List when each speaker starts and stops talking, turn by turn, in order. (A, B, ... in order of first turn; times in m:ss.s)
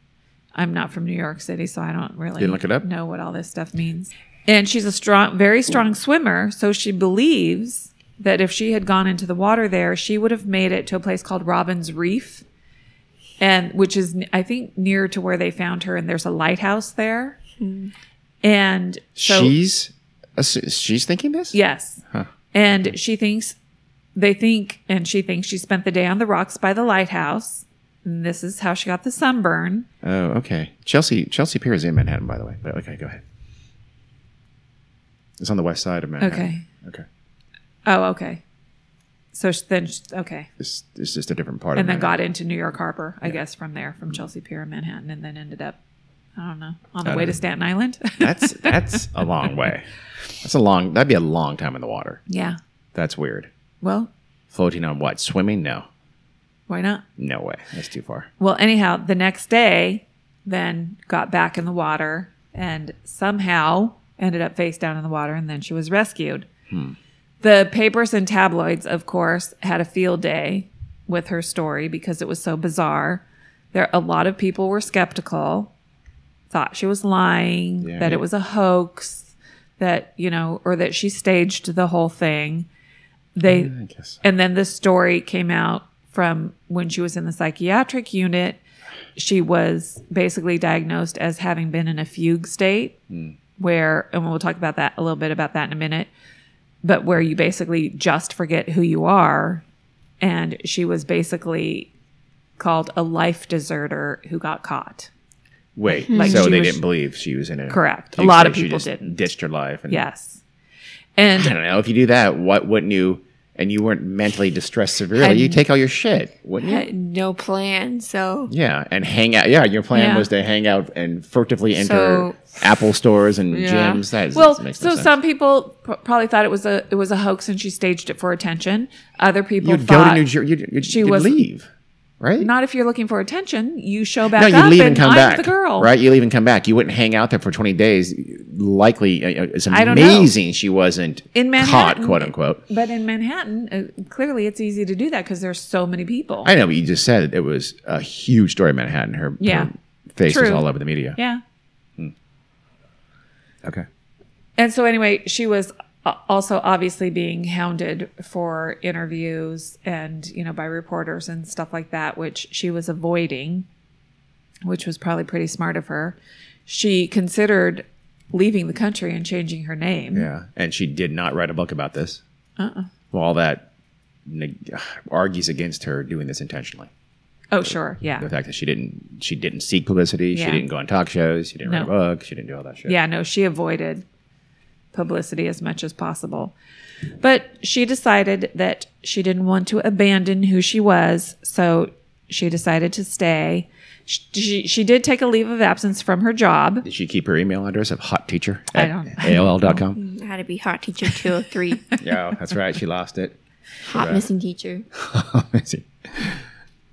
0:00.6-0:12.4 A
0:02.4-0:02.9 B
0:13.4-0:17.4 A
0:17.6-0:17.9 C
0:18.4-0:19.5 A
0:19.2-0:21.6 B
0:21.5-0:23.6 A
0:24.1-0:29.9 A
0:30.0-0:33.2 B
0:35.4-0:37.0 B
0:36.2-0:36.7 A
0:37.9-0:38.4 A
0:39.3-0:40.5 A
0:40.6-0:42.1 B
0:41.8-0:45.8 A
0:46.4-0:49.1 A
0:47.0-0:47.4 B
0:48.2-0:49.9 B
0:50.4-0:52.2 B
0:52.3-0:52.6 A
0:52.9-0:53.5 B
0:53.8-0:54.1 A
0:54.5-0:55.9 B
0:56.7-0:57.0 A
0:57.2-0:58.3 B
0:58.4-1:06.5 A
1:06.7-1:07.0 B
1:07.4-1:15.7 A
1:16.5-1:22.7 A
1:17.8-1:18.2 B
1:23.4-1:23.7 A
1:23.4-1:24.2 B
1:24.2-1:28.6 A
1:29.2-1:33.0 A
1:33.1-1:33.4 B
1:33.6-1:36.1 A
1:36.8-1:39.6 A
1:40.2-1:41.9 A
1:42.6-1:45.1 A
1:45.8-1:50.0 B
1:46.1-1:46.5 C
1:46.1-1:46.8 A
1:47.7-1:49.2 A
1:49.9-1:50.4 A
1:51.2-1:51.5 A
1:51.4-1:56.9 B
1:55.2-1:55.6 A
1:56.6-1:58.5 C
1:58.5-2:05.1 B
1:59.9-2:00.3 A
2:01.7-2:02.6 C
2:03.5-2:04.0 C
2:04.3-2:10.2 A
2:09.6-2:11.7 B
2:10.8-2:11.4 A
2:12.2-2:12.5 B
2:12.4-2:15.9 A
2:14.3-2:22.6 B
2:19.7-2:20.3 A
2:21.3-2:26.5 A
2:26.4-2:31.2 B
2:29.4-2:29.7 A
2:30.3-2:31.4 A
2:34.6-2:43.7 A
2:44.6-2:50.3 A
2:50.1-2:52.2 B
2:52.6-2:52.9 A
2:53.1-2:53.7 B
2:54.3-2:56.9 B
2:57.5-2:58.3 A
2:58.2-3:03.0 B
3:00.3-3:00.6 A
3:01.6-3:01.9 A
3:02.9-3:04.0 A
3:04.9-3:06.5 A
3:07.2-3:16.9 A
3:16.8-3:20.0 B
3:18.7-3:19.8 A
3:20.0-3:21.9 C
3:22.0-3:23.4 B
3:23.8-3:24.9 C
3:23.9-3:24.2 B
3:25.0-3:26.4 B